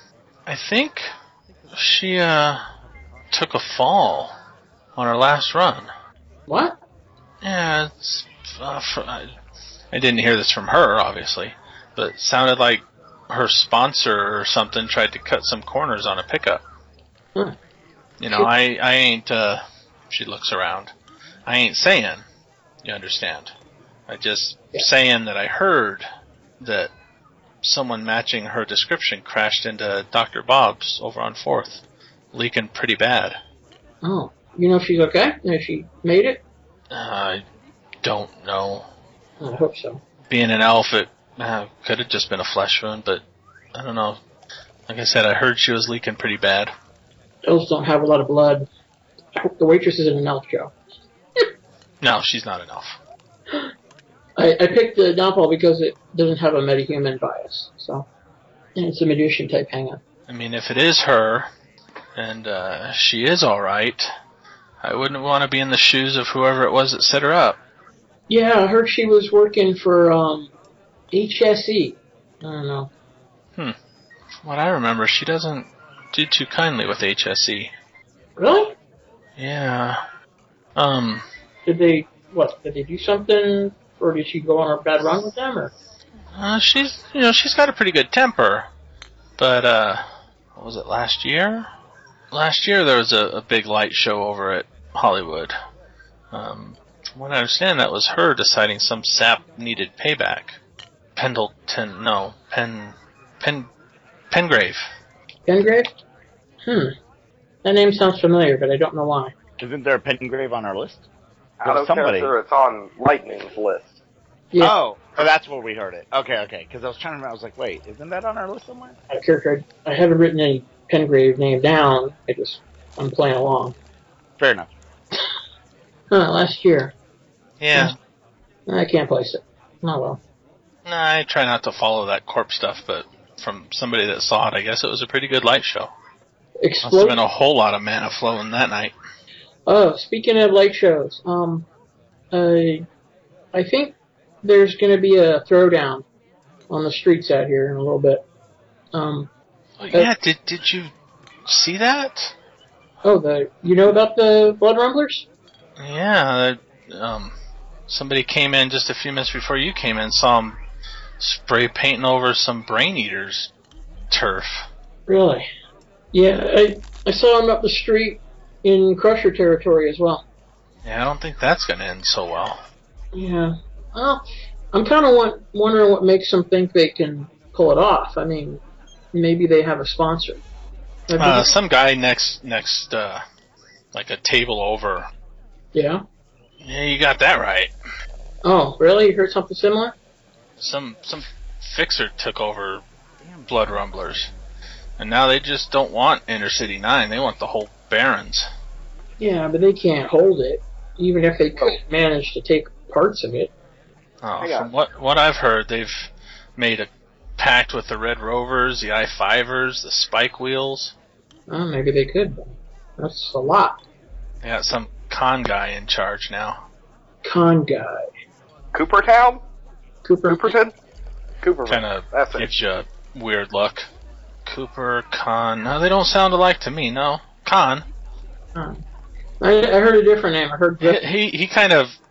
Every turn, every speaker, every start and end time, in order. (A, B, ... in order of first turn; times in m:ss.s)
0:00.5-0:01.1 A
0:01.7-0:02.6 A
0:03.3-0:04.3 A
0:05.0-0:05.9 A
0:06.5-0:06.8 B
0:07.4-0:09.3 A
0:09.9-0:16.6 A
0:18.2-0:20.9 A
0:21.4-0:22.2 A
0:22.8-0:23.5 A
0:24.1-0:26.0 A
0:26.6-0:26.9 A
0:27.6-0:33.4 A
0:34.0-0:36.4 B
0:36.9-0:37.4 A
0:38.0-0:38.8 A
0:39.4-0:40.0 B
0:40.3-0:43.2 A
0:43.7-0:44.2 A
0:44.9-0:46.7 A
0:47.4-0:48.7 B
0:49.4-0:50.7 B
0:52.0-0:53.0 A
0:54.4-0:58.1 B
0:58.8-1:00.0 B
1:00.3-1:01.5 A
1:02.2-1:04.1 A
1:04.8-1:07.6 A
1:08.3-1:10.5 B
1:11.1-1:12.9 B
1:14.4-1:17.7 A
1:18.4-1:18.7 B
1:19.4-1:20.0 A
1:20.8-1:21.2 A
1:21.6-1:25.7 B
1:26.3-1:28.7 A
1:29.4-1:30.0 A
1:30.5-1:31.7 A
1:32.3-1:35.5 A
1:36.3-1:40.6 A
1:41.2-1:43.7 A
1:44.3-1:44.8 A
1:45.5-1:45.9 B
1:46.6-1:46.9 B
1:47.6-1:49.3 B
1:49.6-1:51.1 C
1:51.6-1:53.9 D
1:51.6-1:52.3 C
1:54.6-1:59.0 C
1:59.1-2:03.8 B
2:04.4-2:04.7 C
2:06.1-2:06.9 B
2:07.6-2:07.9 A
2:08.7-2:10.2 B
2:10.8-2:15.9 A
2:16.6-2:17.2 B
2:16.8-2:18.9 A
2:19.7-2:21.7 B
2:22.3-2:22.8 B
2:23.5-2:26.0 B
2:26.7-2:28.2 B
2:28.9-2:29.3 B
2:29.8-2:30.9 A
2:31.4-2:32.3 A
2:33.0-2:35.3 B
2:35.8-2:37.3 A
2:37.9-2:40.6 A
2:41.2-2:43.5 A
2:44.1-2:44.7 A
2:45.1-2:45.5 B
2:46.1-2:50.2 B
2:50.8-2:52.6 A
2:53.1-2:58.6 B
2:59.1-3:00.4 B
3:01.1-3:01.5 B
3:01.2-3:03.2 A
3:03.9-3:05.1 A
3:05.7-3:06.0 B
3:06.6-3:07.7 A
3:08.4-3:10.0 B
3:10.6-3:12.8 A
3:13.5-3:14.3 A
3:15.0-3:18.5 A
3:19.2-3:23.5 B
3:24.2-3:30.9 A
3:24.4-3:24.7 D
3:31.5-3:33.8 B
3:34.4-3:36.6 A
3:37.2-3:38.1 B
3:38.7-3:39.4 D
3:40.0-3:40.5 B
3:40.3-3:40.7 D
3:41.4-3:42.5 D
3:41.7-3:43.9 A
3:44.4-3:47.8 A
3:48.5-3:48.8 B
3:49.4-3:51.0 B
3:50.8-3:52.0 A